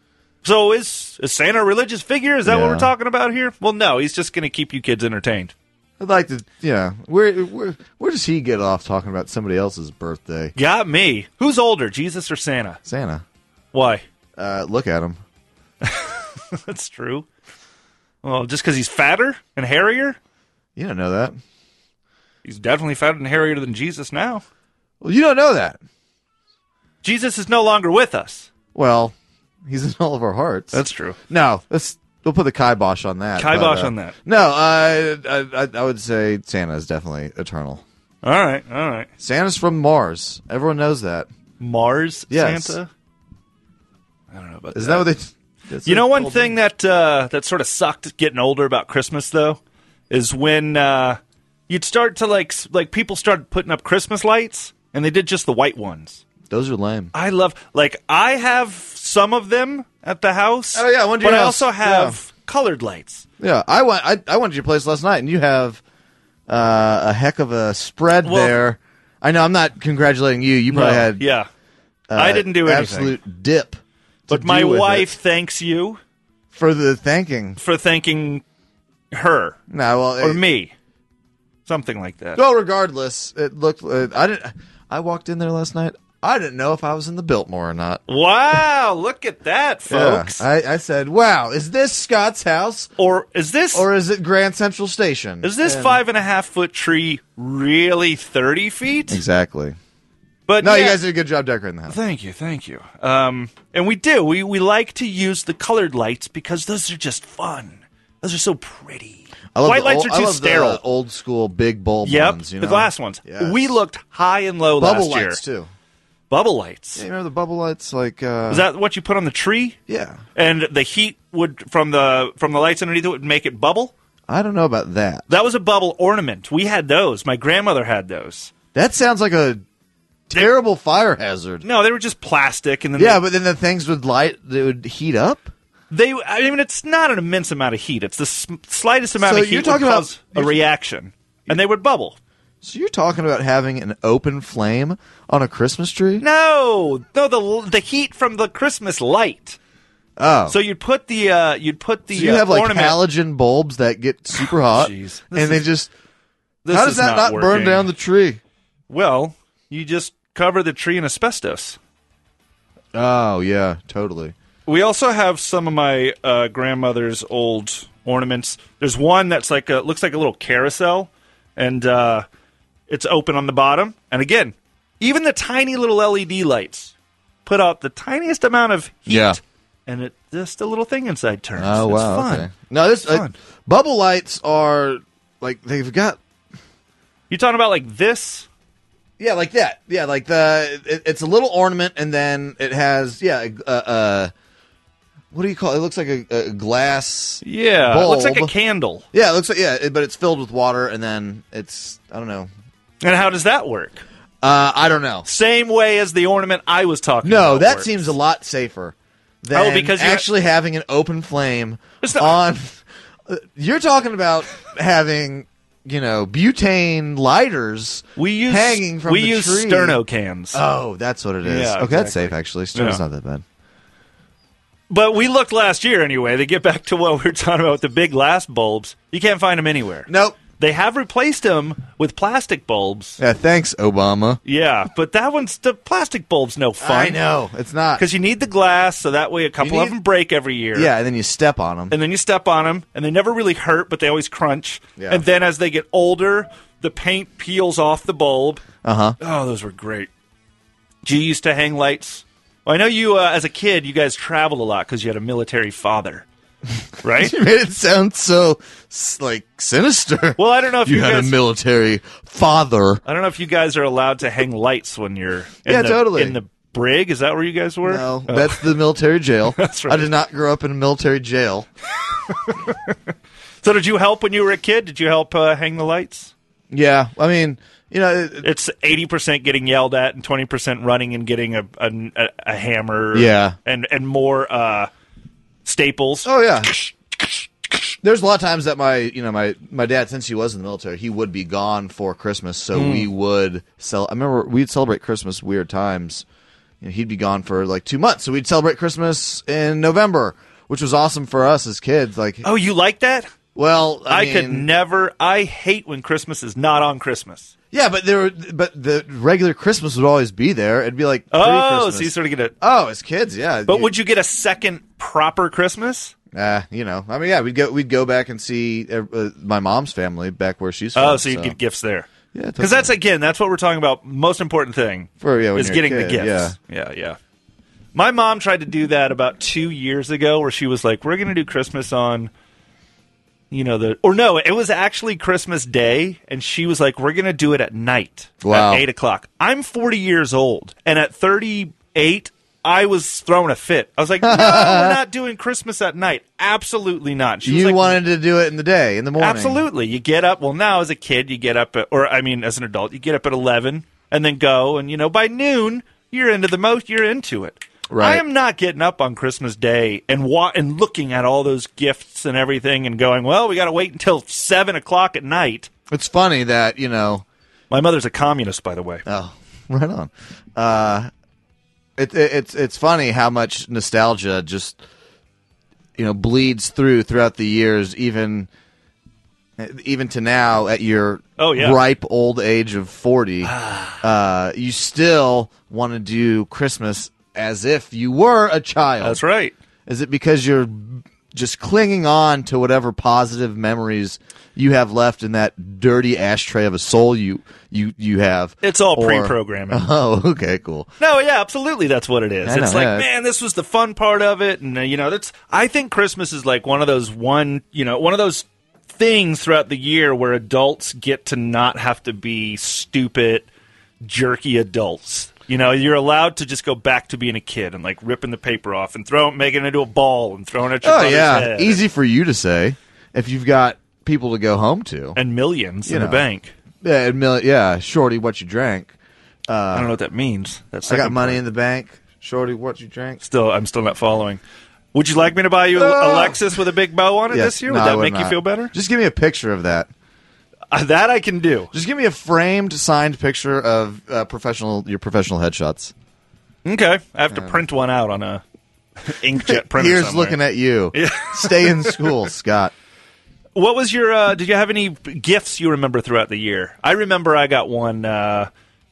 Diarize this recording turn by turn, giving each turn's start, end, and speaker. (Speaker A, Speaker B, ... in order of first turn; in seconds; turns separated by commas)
Speaker A: 0.4-5.5, Speaker B: 2.4-2.9, Speaker B: 6.0-10.5, Speaker A: 10.5-12.8, Speaker B: 12.8-13.2, Speaker A: 13.7-14.0, Speaker B: 14.4-15.2, Speaker A: 15.8-17.2, Speaker A: 18.2-20.2, Speaker B: 20.8-21.4, Speaker A: 22.4-24.4, Speaker B: 25.0-25.8, Speaker A: 27.0-28.5, Speaker B: 28.7-29.1, Speaker B: 29.6-37.8, Speaker A: 30.7-31.2, Speaker A: 33.4-34.1, Speaker A: 38.2-39.1, Speaker B: 39.2-41.3, Speaker A: 41.6-42.9, Speaker B: 42.3-42.8, Speaker A: 44.3-45.1, Speaker B: 44.7-46.5, Speaker A: 45.8-56.2, Speaker B: 56.5-57.1, Speaker A: 57.1-63.2, Speaker B: 60.7-62.2, Speaker B: 63.4-65.8, Speaker B: 66.5-71.2, Speaker A: 68.2-68.6, Speaker A: 70.7-71.5, Speaker B: 72.1-75.1, Speaker A: 72.1-73.2, Speaker A: 74.3-76.0, Speaker B: 76.5-77.6, Speaker A: 77.6-78.4, Speaker A: 79.1-79.6, Speaker B: 79.7-80.4, Speaker A: 80.2-80.7, Speaker A: 81.7-82.4, Speaker B: 82.3-88.0, Speaker A: 88.1-90.4, Speaker B: 89.9-92.9, Speaker A: 93.0-93.9, Speaker B: 93.7-96.0, Speaker A: 95.4-99.2, Speaker B: 99.1-99.8, Speaker A: 100.5-101.0, Speaker B: 100.6-102.0, Speaker A: 101.9-110.8, Speaker B: 109.5-113.8, Speaker A: 112.0-115.4, Speaker B: 114.8-115.7, Speaker A: 116.3-117.0, Speaker B: 117.0-118.7, Speaker A: 118.5-119.8, Speaker B: 119.9-120.2, Speaker A: 120.3-123.9, Speaker B: 124.3-125.3, Speaker A: 125.3-128.5, Speaker B: 128.7-129.6, Speaker B: 130.3-131.6, Speaker A: 131.6-133.2, Speaker B: 132.9-135.5, Speaker A: 135.9-142.2, Speaker B: 139.2-140.6, Speaker B: 142.6-146.2, Speaker A: 146.2-149.6, Speaker B: 150.2-150.6, Speaker A: 150.5-153.0, Speaker B: 152.1-155.9, Speaker A: 154.4-155.6, Speaker A: 156.6-157.9, Speaker B: 156.7-158.4, Speaker A: 158.9-161.8, Speaker B: 162.9-164.3, Speaker A: 164.7-172.2, Speaker A: 172.9-176.9, Speaker A: 177.4-182.5, Speaker B: 179.1-179.4, Speaker B: 181.6-186.2, Speaker A: 183.1-183.3, Speaker A: 187.3-188.5, Speaker B: 189.2-194.3, Speaker B: 195.3-198.5, Speaker A: 197.4-199.0, Speaker B: 199.1-202.5, Speaker A: 203.0-204.0, Speaker B: 204.4-205.2, Speaker A: 205.2-208.1, Speaker B: 207.2-220.0, Speaker A: 209.5-210.3, Speaker A: 212.0-212.4, Speaker A: 218.2-220.6, Speaker B: 220.5-223.4, Speaker A: 221.4-223.0, Speaker A: 224.9-233.2, Speaker B: 230.1-230.4, Speaker B: 233.2-234.4, Speaker A: 234.4-237.2, Speaker B: 236.8-238.0, Speaker A: 238.0-240.9, Speaker B: 239.6-240.0, Speaker B: 240.7-241.9, Speaker A: 241.9-248.6, Speaker B: 245.0-245.2, Speaker B: 248.8-249.2, Speaker A: 249.2-250.1, Speaker A: 251.0-256.2, Speaker A: 257.0-257.3, Speaker B: 257.1-263.0, Speaker A: 260.4-261.4, Speaker A: 263.0-268.8, Speaker B: 265.6-266.4, Speaker B: 267.8-271.7, Speaker A: 269.6-270.1, Speaker A: 272.3-272.9, Speaker A: 273.6-276.3, Speaker B: 276.7-278.5, Speaker A: 278.4-284.9, Speaker B: 283.1-283.6, Speaker A: 285.6-286.3, Speaker B: 286.2-286.7, Speaker B: 288.0-296.2, Speaker A: 292.7-293.1, Speaker B: 296.8-302.4, Speaker A: 302.4-303.3, Speaker B: 303.5-304.7, Speaker A: 304.1-307.5, Speaker B: 307.7-313.9, Speaker A: 311.3-312.5, Speaker A: 313.7-316.1, Speaker B: 316.3-321.6, Speaker A: 320.9-327.2, Speaker B: 322.3-322.9, Speaker B: 325.2-326.5, Speaker A: 327.9-332.3, Speaker A: 333.5-348.0, Speaker B: 338.4-338.8, Speaker B: 344.2-345.0, Speaker B: 347.4-349.6, Speaker A: 349.2-365.7, Speaker B: 357.9-358.2, Speaker B: 365.9-367.2, Speaker A: 367.7-369.0, Speaker B: 369.1-371.1, Speaker B: 372.0-374.8, Speaker B: 376.0-378.5, Speaker B: 379.6-389.2, Speaker A: 381.4-381.8, Speaker A: 383.4-384.0, Speaker A: 389.0-389.6, Speaker B: 389.9-400.9, Speaker A: 398.6-399.9, Speaker A: 401.0-413.5, Speaker B: 402.4-403.1, Speaker A: 414.0-421.8, Speaker B: 420.8-425.2, Speaker A: 425.1-426.5, Speaker B: 425.8-426.2, Speaker B: 426.8-428.9, Speaker B: 429.5-429.9, Speaker A: 429.7-431.4, Speaker B: 430.9-433.2, Speaker A: 433.2-434.4, Speaker A: 434.9-438.7, Speaker B: 435.7-436.4, Speaker B: 437.3-439.9, Speaker A: 440.7-441.7, Speaker B: 441.7-445.9, Speaker A: 446.6-448.4, Speaker B: 447.3-447.6, Speaker A: 449.0-450.4, Speaker B: 449.4-452.7, Speaker A: 450.9-452.1, Speaker A: 453.5-458.5